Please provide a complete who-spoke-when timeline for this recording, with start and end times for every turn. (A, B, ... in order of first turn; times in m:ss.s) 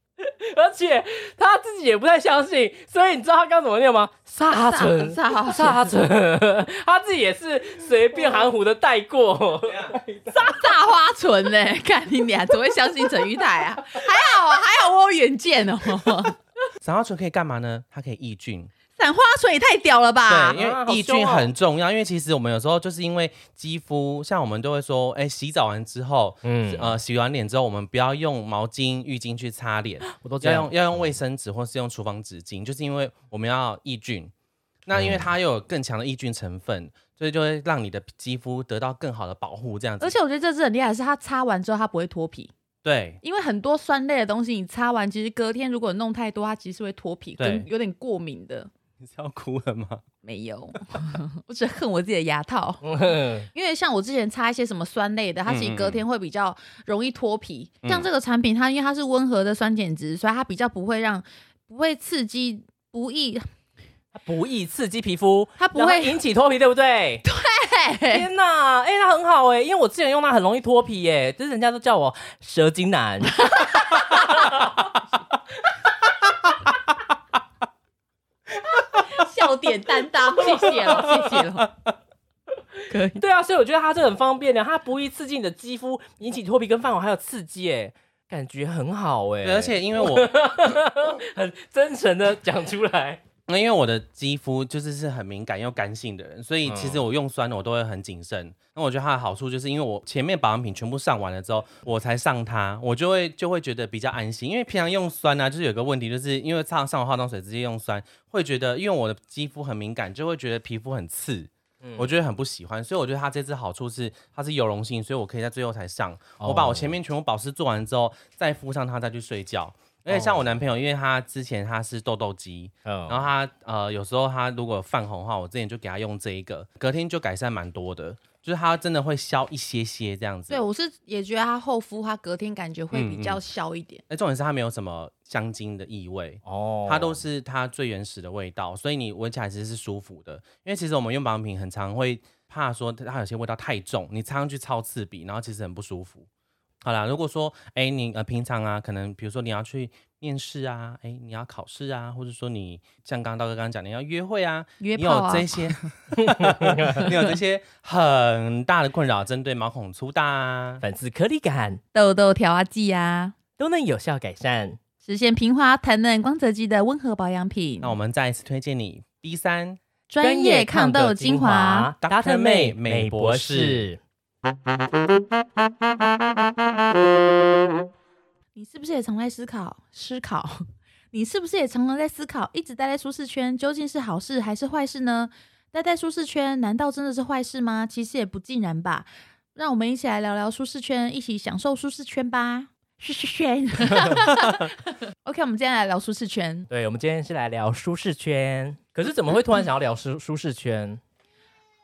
0:00.2-0:10.0 A
0:04.5-0:05.8 B
0:09.7-0:10.5 C
0:10.3-0:16.4 B
0:16.8-0:18.7 C
0:19.0-0:20.6 B
0:20.3-0:34.3 C
0:20.6-0:21.5 A
0:26.4-0:27.0 A
0:30.1-0:30.7 A
0:34.9-0:40.2 C
0:35.0-0:35.2 A
0:40.0-0:42.5 B
0:42.8-0:43.2 C
0:43.2-0:48.7 B
0:47.4-0:47.7 C
0:49.0-0:50.0 C
0:50.2-0:52.9 B
0:52.8-0:53.5 A
0:53.5-1:03.5 B
0:55.5-0:56.0 C
0:57.8-0:58.1 C
1:04.1-1:07.2 A
1:05.6-1:06.2 B
1:07.2-1:08.3 B
1:08.1-1:14.8 A
1:13.5-1:14.3 B
1:19.0-1:21.7 B
1:21.1-1:21.4 A
1:22.9-1:23.2 B
1:23.2-1:33.2 A
1:29.4-1:30.3 C
1:33.5-2:10.6 C
1:36.7-1:37.0 A
1:51.8-1:52.1 A
1:56.4-1:57.0 A
2:00.1-2:00.5 A
2:02.9-2:03.2 A
2:10.5-2:14.0 B
2:12.9-2:13.4 C
2:14.1-2:26.3 C
2:16.4-2:17.2 A
2:26.8-2:40.8 C
2:34.8-2:35.9 B
2:36.2-2:37.1 A
2:40.8-2:41.8 A
2:41.9-2:43.4 B
2:43.6-2:44.8 A
2:45.0-2:48.0 B
2:47.8-2:49.8 C
2:50.1-2:51.9 B
2:50.2-2:54.0 A
2:52.0-2:53.9 C
2:58.6-3:16.7 B
3:16.7-3:21.0 A